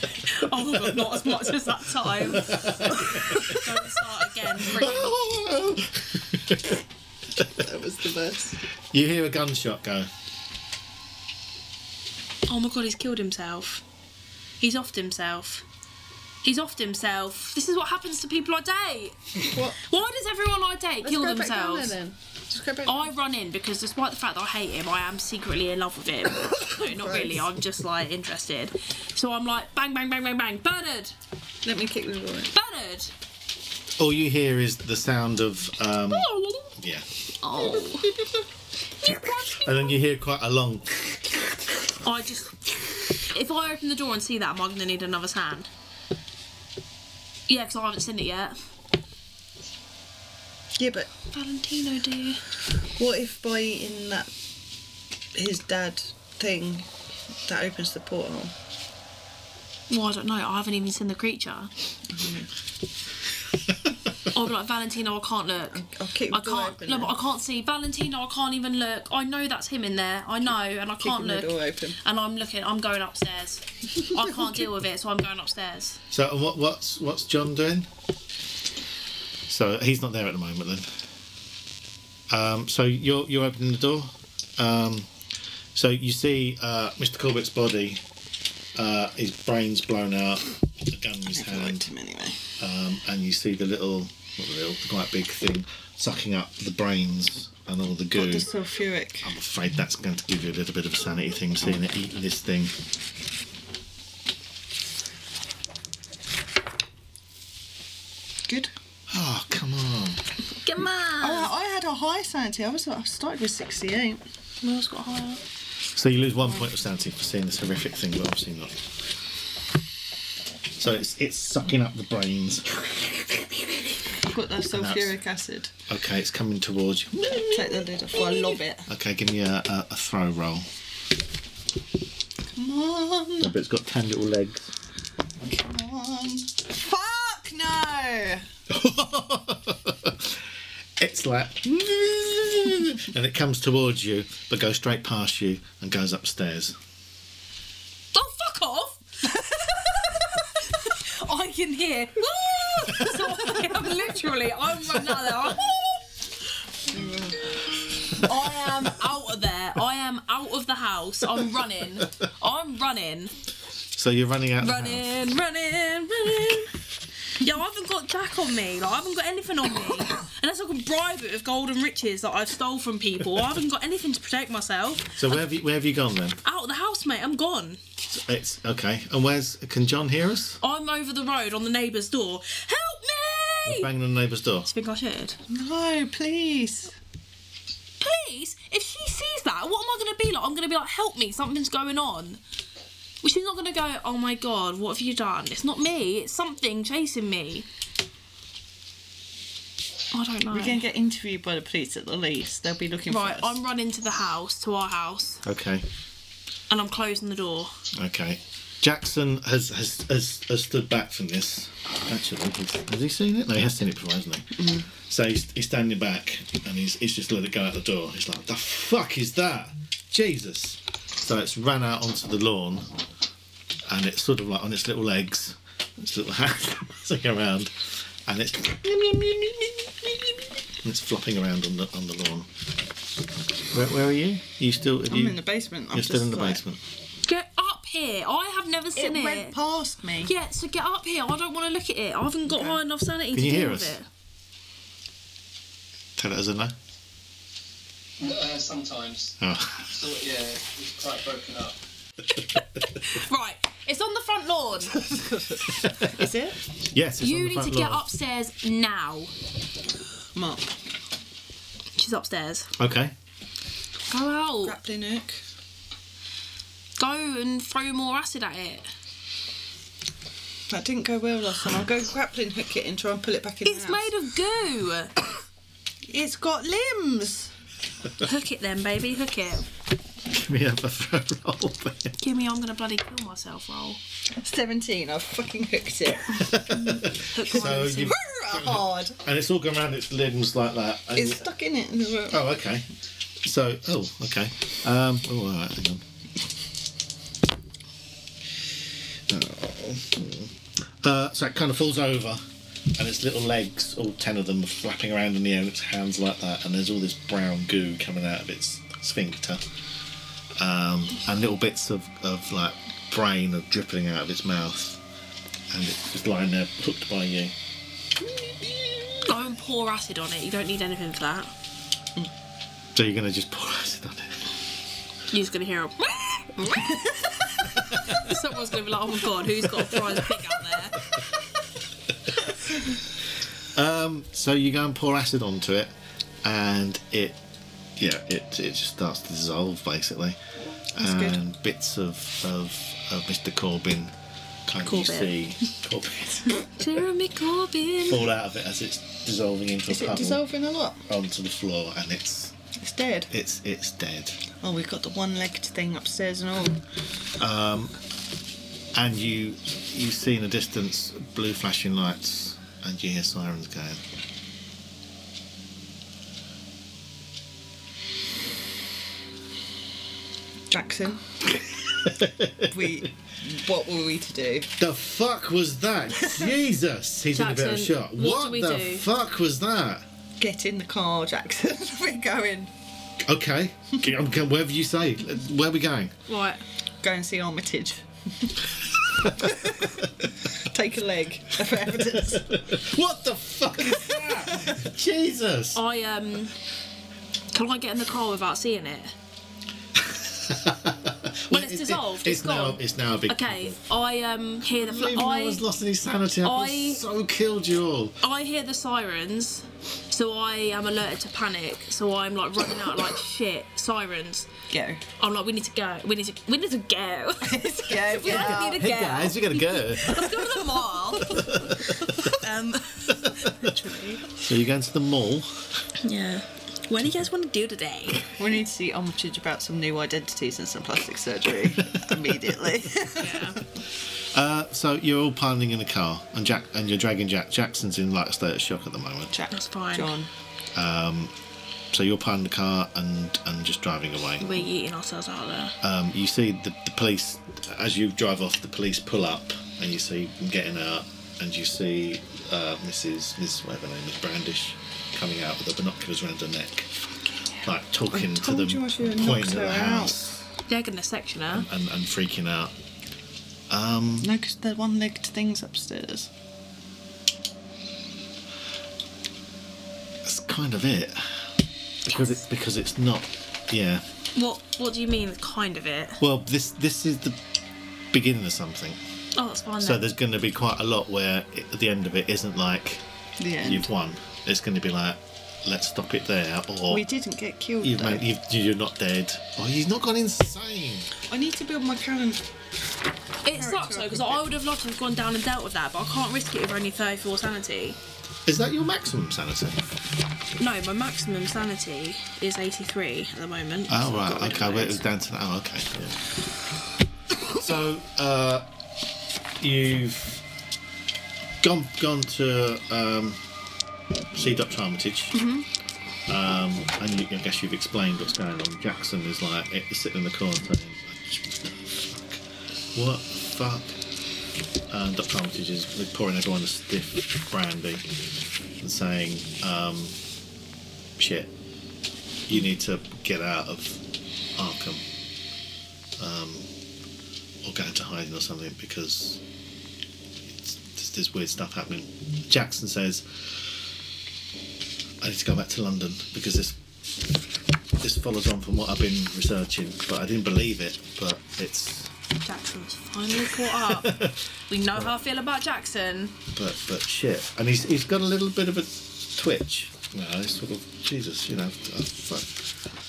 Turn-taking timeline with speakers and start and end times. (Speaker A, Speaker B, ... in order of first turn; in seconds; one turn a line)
Speaker A: 0.2-5.2
Speaker B: 2.5-3.5
Speaker B: 4.6-6.8
Speaker C: 7.5-8.6
Speaker B: 8.9-10.1
Speaker A: 12.5-13.8
Speaker A: 14.6-15.7
Speaker A: 16.4-22.0
Speaker C: 19.5-19.8
Speaker C: 21.0-23.1
Speaker A: 22.9-31.1
Speaker C: 26.7-27.4
Speaker C: 31.6-32.5
Speaker A: 32.5-33.1
Speaker B: 34.0-37.1
Speaker A: 36.1-36.8
Speaker A: 37.4-38.1
Speaker A: 39.0-39.9
Speaker B: 39.6-41.2
Speaker A: 42.0-45.7
Speaker A: 47.5-48.6
Speaker C: 50.8-51.1
Speaker A: 51.3-52.4
Speaker C: 53.0-54.3
Speaker C: 55.3-56.9
Speaker C: 57.5-58.5
Speaker A: 59.9-61.7
Speaker C: 62.1-62.5
Speaker A: 64.3-76.0
Speaker C: 65.7-67.1
Speaker C: 71.0-72.0
Speaker B: 76.1-77.9
Speaker B: 79.5-80.9
Speaker B: 82.3-85.1
Speaker B: 85.8-88.0
Speaker B: 88.8-91.9
Speaker C: 91.3-92.4
Speaker B: 92.6-98.5
Speaker C: 98.2-99.3
Speaker B: 99.2-102.7
Speaker C: 108.5-108.7
Speaker B: 109.1-110.2
Speaker A: 110.6-111.5
Speaker C: 111.2-114.2
Speaker A: 114.6-115.4
Speaker B: 115.9-118.8
Speaker B: 120.8-125.2
Speaker C: 124.3-125.7
Speaker B: 125.9-130.7
Speaker C: 127.5-128.9
Speaker C: 132.6-133.5
Speaker B: 133.4-134.7
Speaker C: 135.4-138.5
Speaker B: 138.7-140.4
Speaker B: 141.0-146.8
Speaker A: 148.1-156.1
Speaker C: 152.8-153.2
Speaker C: 156.9-157.5
Speaker A: 158.1-163.3
Speaker B: 163.9-165.1
Speaker A: 164.6-166.8
Speaker A: 167.3-175.3
Speaker B: 175.2-176.4
Speaker A: 176.4-177.8
Speaker B: 178.1-180.6
Speaker A: 180.6-183.9
Speaker B: 183.7-184.7
Speaker A: 184.7-185.4
Speaker C: 185.5-186.9
Speaker A: 188.0-192.4
Speaker A: 193.2-197.7
Speaker A: 200.1-200.8
Speaker C: 200.5-203.6
Speaker A: 203.1-205.4
Speaker B: 205.4-205.9
Speaker A: 206.7-207.7
Speaker B: 207.9-222.9
Speaker C: 214.6-214.9
Speaker B: 223.9-227.7
Speaker B: 228.3-230.2
Speaker B: 230.8-232.5
Speaker B: 233.7-236.8
Speaker C: 235.1-236.6
Speaker A: 237.2-239.6
Speaker C: 239.0-240.3
Speaker A: 240.2-244.1
Speaker C: 242.5-242.8
Speaker B: 243.3-244.0
Speaker B: 246.2-246.7
Speaker D: 248.2-251.8
Speaker B: 249.4-249.9
Speaker A: 252.9-255.0
Speaker C: 255.0-256.6
Speaker B: 255.8-256.1
Speaker B: 256.9-258.0
Speaker A: 257.2-259.3
Speaker C: 260.4-260.7
Speaker A: 262.0-262.7
Speaker B: 262.8-263.1
Speaker A: 264.1-264.8
Speaker C: 264.6-265.4
Speaker A: 267.0-268.9
Speaker C: 270.7-274.1
Speaker A: 273.6-275.1
Speaker C: 276.1-277.5
Speaker A: 278.2-279.7
Speaker B: 280.3-282.2
Speaker A: 282.2-284.0
Speaker C: 284.4-287.0
Speaker B: 286.5-291.4
Speaker A: 287.3-288.2
Speaker C: 287.7-289.2
Speaker C: 291.1-292.5
Speaker B: 292.3-292.9
Speaker B: 293.4-296.0
Speaker B: 299.3-300.5
Speaker B: 301.0-302.4
Speaker B: 303.0-309.6
Speaker B: 310.6-315.0
Speaker B: 315.7-317.6
Speaker A: 319.2-321.5
Speaker B: 322.9-324.4
Speaker A: 325.3-327.4
Speaker A: 327.9-331.0
Speaker B: 333.6-335.9
Speaker B: 336.4-337.4
Speaker B: 338.0-340.4
Speaker B: 340.9-344.1
Speaker C: 341.0-341.4
Speaker B: 344.7-346.7
Speaker A: 344.8-345.4
Speaker A: 346.8-348.2
Speaker B: 348.1-350.4
Speaker C: 349.9-351.0
Speaker B: 351.1-352.6
Speaker C: 352.8-353.3
Speaker B: 353.3-354.4
Speaker C: 354.6-356.8
Speaker B: 357.4-357.9
Speaker B: 358.9-364.0
Speaker C: 370.7-371.4
Speaker B: 372.1-373.0
Speaker C: 372.7-374.7
Speaker B: 374.8-380.1
Speaker A: 377.3-379.1
Speaker C: 380.4-382.7
Speaker B: 383.2-386.1
Speaker A: 386.3-386.6
Speaker C: 387.0-388.6
Speaker C: 389.2-392.6
Speaker B: 392.3-395.8
Speaker C: 393.9-394.8
Speaker A: 395.8-396.5
Speaker A: 397.5-399.1
Speaker B: 400.0-403.8
Speaker A: 401.5-405.6
Speaker B: 404.7-408.2
Speaker A: 406.4-407.0
Speaker A: 408.2-414.5
Speaker C: 414.7-415.0
Speaker A: 415.2-423.5
Speaker C: 417.4-418.8
Speaker B: 418.3-420.3
Speaker B: 421.4-421.8
Speaker C: 423.5-424.3
Speaker B: 424.4-425.5
Speaker A: 426.0-428.3
Speaker C: 428.4-433.6
Speaker A: 433.2-433.6
Speaker B: 434.2-439.3
Speaker C: 439.3-440.3
Speaker A: 439.5-440.2
Speaker B: 440.7-441.3
Speaker B: 441.9-444.6
Speaker A: 444.4-445.8
Speaker B: 445.8-457.1
Speaker B: 457.6-460.5
Speaker C: 458.1-460.1
Speaker A: 460.7-461.7
Speaker B: 461.5-462.7
Speaker B: 463.7-464.3
Speaker C: 464.2-466.3
Speaker B: 470.2-471.5
Speaker B: 472.1-474.0
Speaker A: 472.1-472.3
Speaker A: 474.4-476.2
Speaker B: 476.2-477.4
Speaker B: 478.1-479.0
Speaker A: 479.4-480.0
Speaker B: 479.8-483.0
Speaker C: 483.4-483.9
Speaker B: 483.6-487.1
Speaker C: 486.9-488.2
Speaker B: 487.8-491.1
Speaker C: 491.3-492.4
Speaker A: 493.4-498.0
Speaker C: 493.5-494.4
Speaker B: 498.4-499.8
Speaker A: 500.6-505.0
Speaker B: 503.9-506.2
Speaker B: 507.5-508.6
Speaker B: 509.6-510.4
Speaker B: 511.6-513.4
Speaker B: 514.3-515.4
Speaker A: 515.3-515.7
Speaker B: 516.3-522.4
Speaker B: 523.0-524.0
Speaker B: 524.9-528.0
Speaker B: 528.8-530.2
Speaker B: 531.2-531.5
Speaker B: 532.5-534.0
Speaker B: 534.6-535.0
Speaker B: 536.2-536.7
Speaker B: 537.6-539.4
Speaker B: 540.5-543.7
Speaker B: 545.2-546.8
Speaker B: 548.0-552.1
Speaker A: 552.4-556.4
Speaker B: 553.9-554.4
Speaker B: 556.5-562.6